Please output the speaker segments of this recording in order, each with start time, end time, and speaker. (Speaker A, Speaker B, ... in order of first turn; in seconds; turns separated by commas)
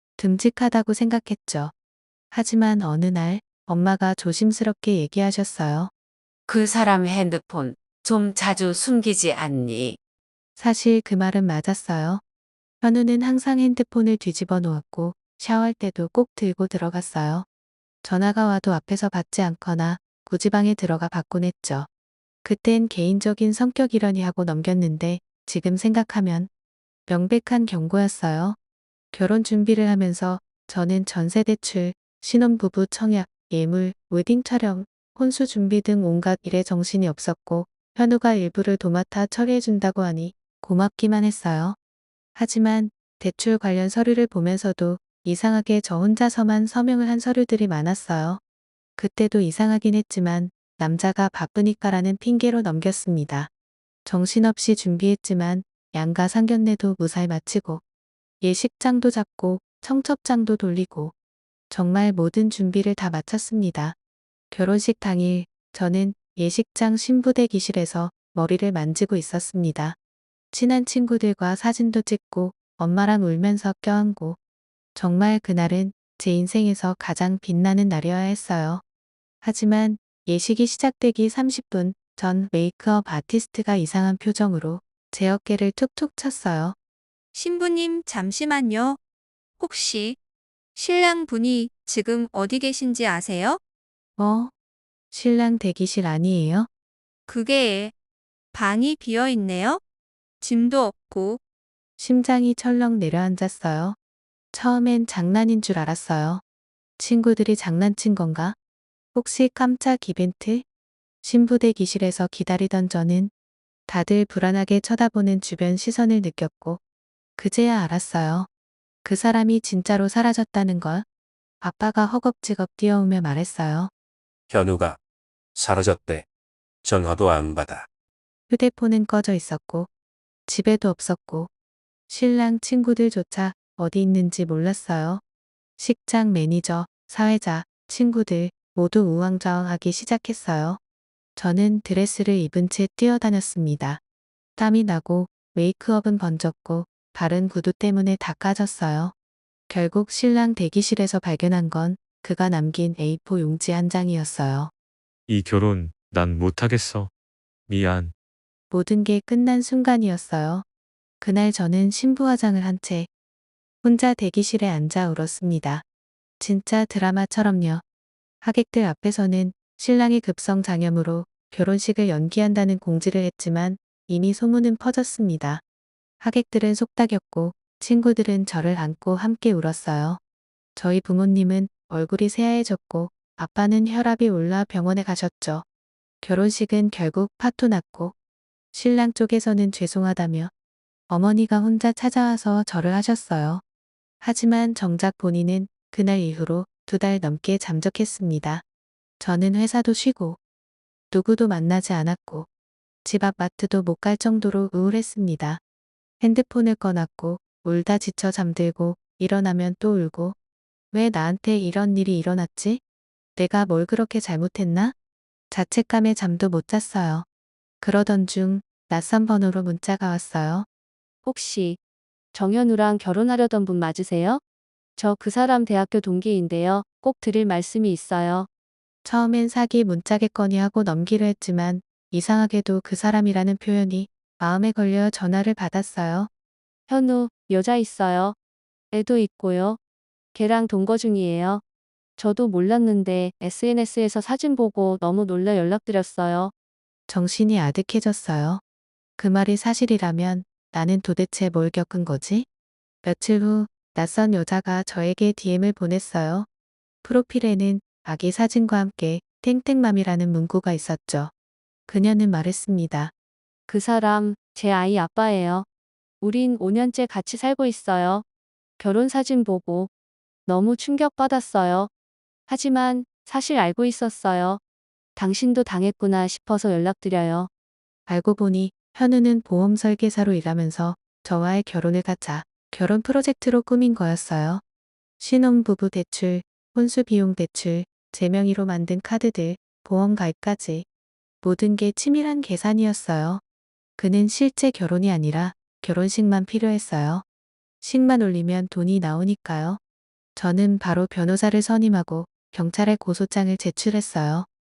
Speaker A: 0.2-1.7, Speaker A: 2.3-5.9, Speaker B: 6.5-10.0, Speaker A: 10.6-12.2, Speaker A: 12.8-17.4, Speaker A: 18.0-21.9, Speaker A: 22.4-26.5, Speaker A: 27.1-28.6, Speaker A: 29.1-41.8, Speaker A: 42.4-48.4, Speaker A: 49.0-53.5, Speaker A: 54.0-57.8, Speaker A: 58.4-61.1, Speaker A: 61.7-64.0, Speaker A: 64.5-70.0, Speaker A: 70.5-74.4, Speaker A: 74.9-78.8, Speaker A: 79.4-86.8, Speaker C: 87.3-89.0, Speaker C: 89.6-90.2, Speaker C: 90.7-93.6, Speaker A: 94.2-94.5, Speaker A: 95.1-96.7, Speaker C: 97.3-97.9, Speaker C: 98.5-99.8, Speaker C: 100.4-101.4, Speaker A: 102.0-104.0, Speaker A: 104.5-106.4, Speaker A: 107.0-108.5, Speaker A: 109.1-110.7, Speaker A: 111.2-113.3, Speaker A: 113.9-116.8, Speaker A: 117.4-118.5, Speaker A: 119.0-121.0, Speaker A: 121.6-123.9, Speaker D: 124.5-125.0, Speaker D: 125.6-126.2, Speaker D: 126.8-127.9, Speaker A: 128.5-129.9, Speaker A: 130.5-131.5, Speaker A: 132.1-135.2, Speaker A: 135.8-140.8, Speaker A: 141.3-144.0, Speaker A: 144.6-149.1, Speaker A: 149.7-154.7, Speaker E: 155.3-157.1, Speaker E: 157.7-158.1, Speaker A: 158.7-160.6, Speaker A: 161.2-163.1, Speaker A: 163.8-165.8, Speaker A: 166.4-167.8, Speaker A: 168.4-175.6, Speaker A: 176.2-180.2, Speaker A: 180.8-185.6, Speaker A: 186.2-188.2, Speaker A: 188.7-190.5, Speaker A: 191.1-193.6, Speaker A: 194.2-198.6, Speaker A: 199.2-200.4, Speaker A: 201.1-202.5, Speaker A: 203.0-205.6, Speaker A: 206.2-210.3, Speaker A: 210.9-212.8, Speaker A: 213.3-214.9, Speaker A: 215.5-217.2, Speaker A: 217.8-220.7, Speaker F: 221.2-221.8, Speaker F: 222.3-224.4, Speaker F: 225.0-228.5, Speaker A: 229.0-236.3, Speaker F: 236.9-238.3, Speaker F: 238.9-239.8, Speaker F: 240.3-241.6, Speaker F: 242.2-246.5, Speaker A: 247.1-248.6, Speaker A: 249.2-252.5, Speaker A: 253.0-256.5, Speaker A: 257.0-261.3, Speaker A: 261.9-263.1, Speaker F: 263.7-265.6, Speaker F: 266.2-268.2, Speaker F: 268.8-269.9, Speaker F: 270.4-271.9, Speaker F: 272.5-274.6, Speaker F: 275.1-277.5, Speaker A: 278.1-284.6, Speaker A: 285.2-290.9, Speaker A: 291.4-293.4, Speaker A: 294.0-297.2, Speaker A: 297.8-299.8, Speaker A: 300.4-304.5